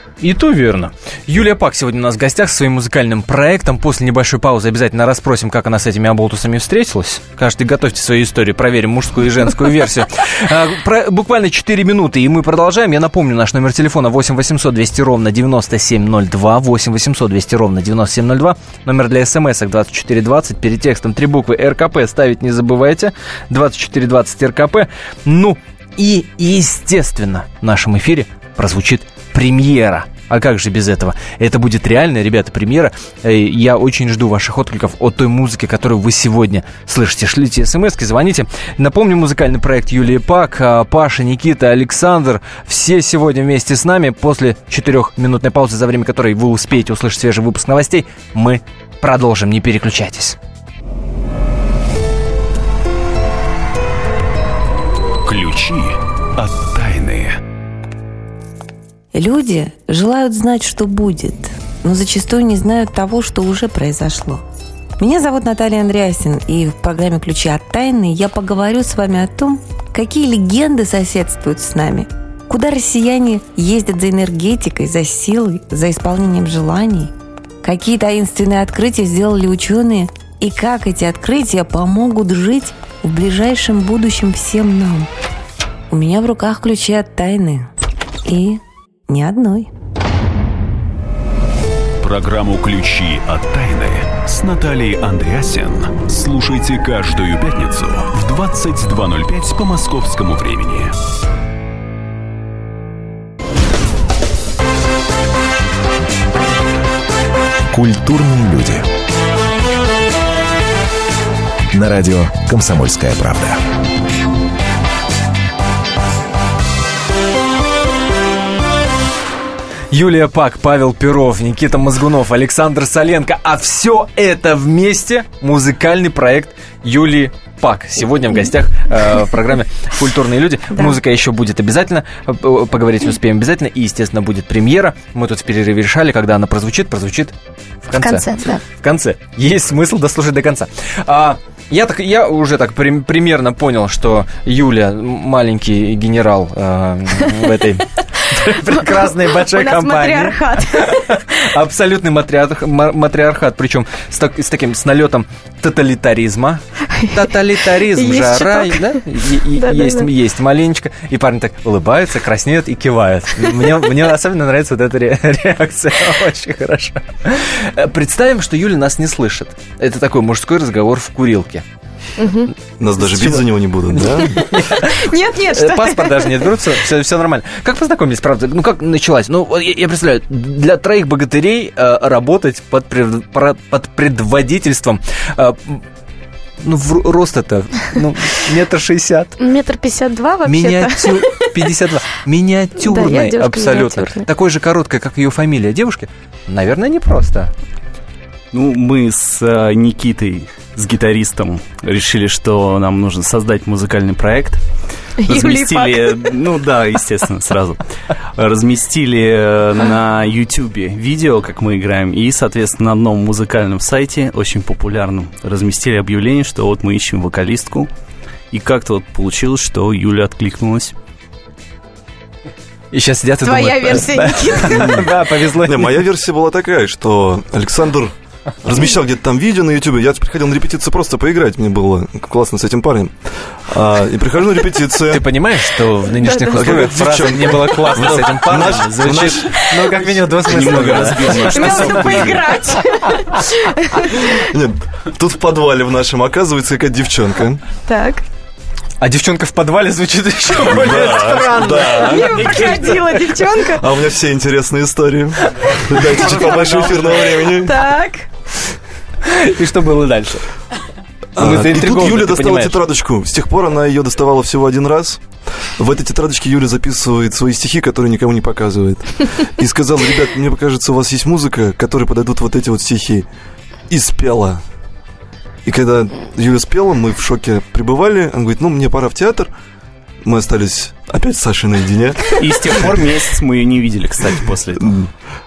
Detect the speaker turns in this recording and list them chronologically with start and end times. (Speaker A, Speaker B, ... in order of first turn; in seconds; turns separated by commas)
Speaker A: 0.2-50.4, Speaker B: 55.2-57.4, Speaker C: 59.1-64.4, Speaker C: 65.0-85.1, Speaker C: 85.9-87.7, Speaker C: 88.3-89.7, Speaker B: 92.0-100.9, Speaker D: 107.7-108.8, Speaker D: 111.7-113.6, Speaker A: 119.9-137.3, Speaker A: 137.9-171.6, Speaker E: 137.9-138.6, Speaker E: 148.4-151.3, Speaker E: 157.9-160.1, Speaker E: 172.2-172.5, Speaker F: 172.8-174.4, Speaker A: 173.0-185.8, Speaker E: 174.2-176.5, Speaker A: 186.6-189.4, Speaker E: 189.4-191.5, Speaker A: 190.4-197.5, Speaker E: 192.8-194.3, Speaker G: 198.5-204.6, Speaker E: 205.2-206.4, Speaker G: 205.3-207.8, Speaker G: 208.4-217.9, Speaker G: 218.5-220.9, Speaker A: 222.9-226.0, Speaker E: 223.4-225.0, Speaker F: 224.8-228.1, Speaker F: 228.6-235.3, Speaker A: 235.1-242.4, Speaker E: 236.2-237.1, Speaker F: 236.5-242.0, Speaker G: 238.7-239.2, Speaker E: 239.5-239.8, Speaker G: 240.5-242.3, Speaker E: 241.5-244.4, Speaker F: 244.5-247.6, Speaker E: 247.9-248.2, Speaker A: 249.0-253.0, Speaker F: 250.5-252.9, Speaker E: 251.8-253.9, Speaker F: 253.8-257.7, Speaker A: 256.0-257.5, Speaker E: 257.5-258.3, Speaker A: 259.2-260.5, Speaker F: 261.4-265.2, Speaker A: 261.4-262.8, Speaker F: 265.8-273.3, Speaker F: 273.9-274.6, Speaker F: 275.6-279.5, Speaker F: 280.2-282.4, Speaker G: 282.4-285.0